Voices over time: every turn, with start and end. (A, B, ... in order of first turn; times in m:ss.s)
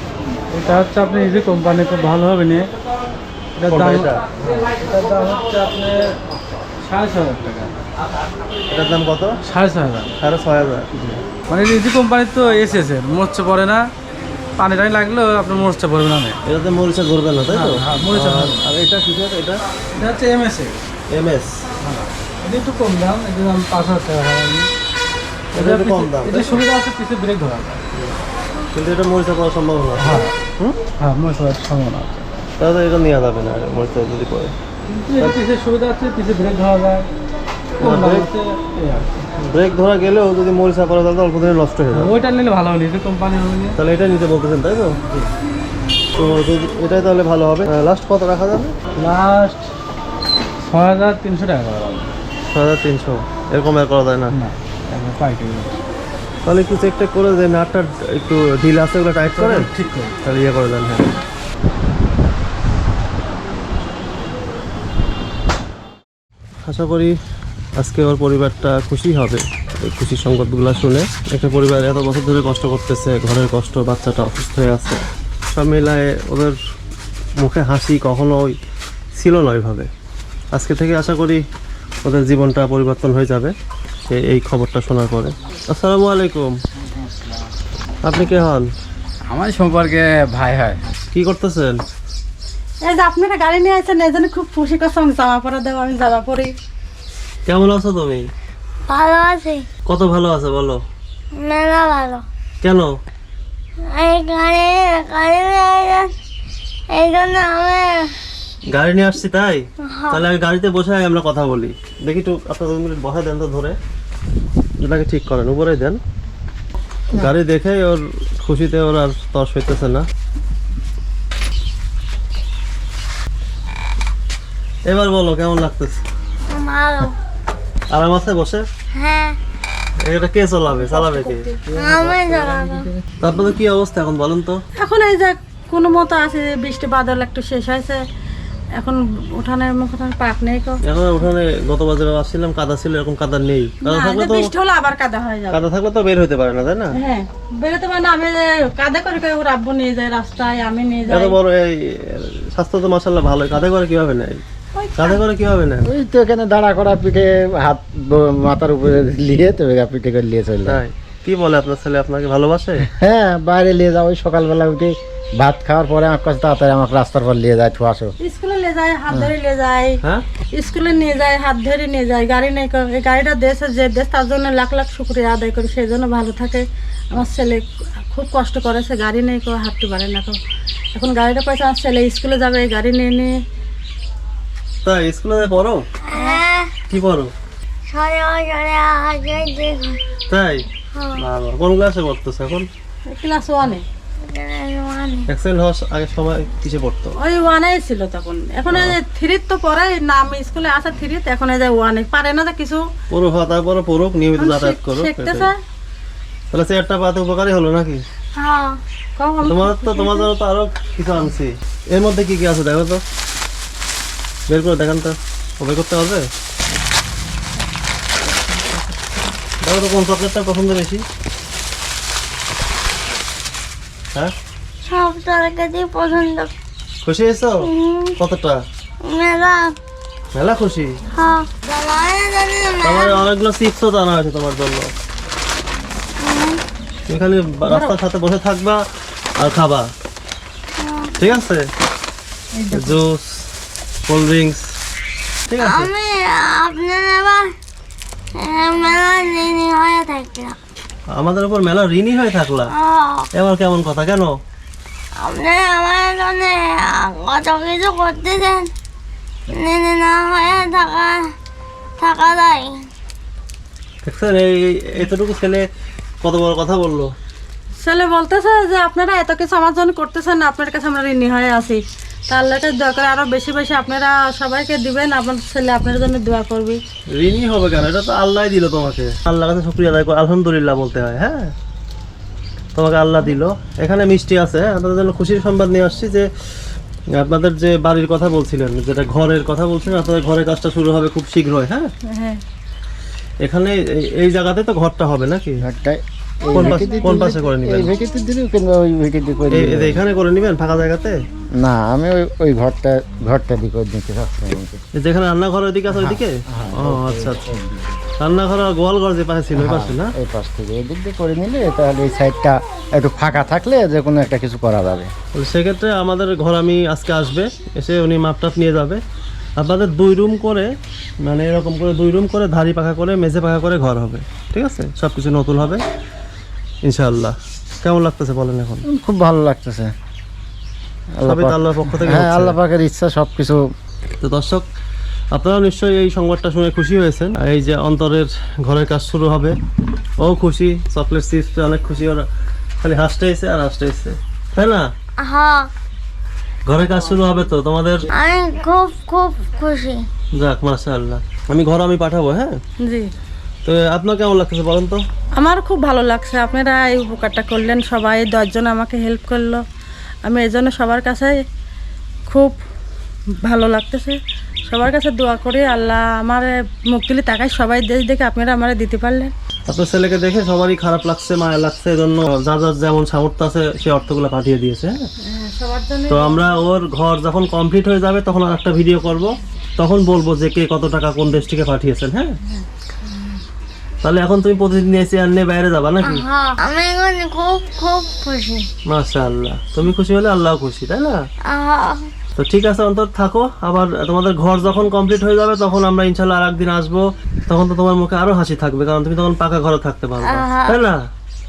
0:00.5-0:02.6 A
0:03.6-0:04.2 B
0:03.7-0:06.1 A
0:06.8-0:07.7 A
0:08.7-0:09.3 B
0:09.5-0:10.1 A
0:10.2-0:10.9 B
0:10.9-0:13.8 A
0:14.6-0:16.4 A
0:16.4-0:19.6 B
0:17.5-0:18.6 A
0:19.9-0:20.8 A
0:21.1-0:21.5 B
0:21.8-0:24.7 A
0:25.5-0:26.6 B
0:25.5-0:27.8 A
0:28.7-0:30.8 B
0:30.0-0:30.3 A
0:31.0-0:32.3 A
0:32.6-0:34.5 B
0:34.9-0:37.1 A
0:37.8-0:39.2 A
0:37.8-0:38.3 B
0:39.4-0:42.1 B
0:41.9-0:43.8 A
0:43.8-0:45.0 B
0:46.1-0:48.7 B
0:49.0-0:49.7 A
0:50.6-0:52.1 A
0:52.5-0:54.4 B
0:54.3-0:55.8 A
0:56.4-0:59.7 B
0:59.4-1:00.1 A
1:00.2-1:01.1 B
1:06.6-1:07.2 B
1:07.8-1:16.6 B
1:17.4-1:18.5 B
1:19.1-1:19.9 B
1:20.5-1:21.4 B
1:22.0-1:23.5 B
1:24.1-1:26.5 B
1:28.0-1:28.7 B
1:29.3-1:30.8 C
1:31.1-1:31.8 B
1:32.8-1:36.5 D
1:37.4-1:38.2 B
1:38.9-1:39.7 E
1:39.8-1:40.8 B
1:41.4-1:42.2 E
1:42.6-1:42.9 B
1:43.9-1:46.1 E
1:46.9-1:48.1 E
1:48.7-1:53.8 B
1:49.9-1:50.2 E
1:54.8-1:56.0 B
1:57.1-2:00.0 B
2:04.8-2:06.0 B
2:06.5-2:07.2 E
2:07.9-2:08.6 B
2:08.9-2:09.4 E
2:10.0-2:11.5 B
2:10.9-2:11.5 D
2:11.7-2:12.9 E
2:11.7-2:13.0 C
2:13.2-2:14.6 B
2:14.8-2:18.0 D
2:18.8-2:20.8 D
2:20.8-2:24.5 B
2:23.8-2:25.6 D
2:25.5-2:26.9 B
2:27.0-2:31.4 D
2:31.1-2:34.4 B
2:34.7-2:35.2 D
2:35.0-2:35.9 B
2:35.8-2:40.8 C
2:40.7-2:42.9 B
2:42.8-2:48.1 C
2:48.2-2:50.0 D
2:50.5-3:00.4 D
3:00.9-3:03.4 D
3:04.8-3:05.8 B
3:06.1-3:06.8 E
3:06.1-3:06.4 D
3:06.9-3:07.3 B
3:07.9-3:10.0 E
3:10.3-3:12.7 B
3:13.1-3:13.8 D
3:14.3-3:15.3 E
3:15.3-3:17.2 B
3:17.2-3:22.8 D
3:18.7-3:19.0 B
3:23.1-3:25.5 B
3:24.4-3:25.5 D
3:26.5-3:28.0 B
3:28.4-3:28.8 E
3:29.2-3:30.3 D
3:29.4-3:33.0 B
3:34.5-3:36.2 B
3:39.6-3:41.0 B
3:44.8-3:46.5 E
3:47.0-3:47.7 B
3:47.6-3:48.1 E
3:48.2-3:48.6 B
3:49.0-3:49.7 E
3:50.3-3:50.9 B
3:51.1-3:53.2 E
3:52.8-3:54.9 B
3:56.2-3:56.6 E
3:57.1-3:58.8 B
3:57.7-3:57.9 D
3:59.4-3:59.9 B
4:00.8-4:01.3 E
4:01.2-4:01.6 B
4:02.6-4:03.0 D
4:02.7-4:03.4 B
4:04.0-4:04.7 B
4:05.5-4:05.9 B
4:05.6-4:07.5 E
4:08.4-4:10.6 E
4:11.1-4:12.7 B
4:12.7-4:13.3 E
4:13.3-4:14.3 B
4:15.2-4:18.7 E
4:19.5-4:21.2 E
4:22.0-4:22.8 E
4:24.0-4:25.6 B
4:26.2-4:27.1 B
4:27.8-4:36.8 D
4:37.1-4:41.5 B
4:42.7-4:46.3 B
4:47.1-4:51.9 B
4:52.0-4:52.4 D
4:53.4-4:55.6 B
4:55.6-5:00.0 C
4:56.5-4:57.9 B
4:59.5-5:01.2 B
5:01.6-5:04.8 C
5:04.9-5:07.5 B
5:05.9-5:08.0 C
5:08.2-5:10.1 B
5:09.6-5:15.1 C
5:15.3-5:19.0 B
5:19.6-5:20.7 B
5:21.2-5:25.8 B
5:26.8-5:28.8 B
5:28.9-5:29.9 C
5:31.2-5:33.6 C
5:31.2-5:32.6 B
5:34.2-5:34.6 B
5:35.3-5:39.5 B
5:40.2-5:42.2 B
5:42.8-5:44.9 B
5:45.2-5:45.7 E
5:46.6-5:48.1 B
5:48.1-5:50.0 E
5:50.3-5:52.6 B
5:52.8-5:53.1 D
5:53.6-5:55.0 B
5:55.4-5:59.6 D
6:00.2-6:01.4 D
6:02.3-6:02.6 D
6:03.4-6:09.3 D
6:09.7-6:15.0 B
6:15.2-6:16.6 D
6:16.1-6:22.4 B
6:24.0-6:26.2 B
6:26.0-6:28.7 E
6:28.8-6:31.2 B
6:31.5-6:32.1 E
6:32.4-6:41.0 B
6:40.2-6:40.8 E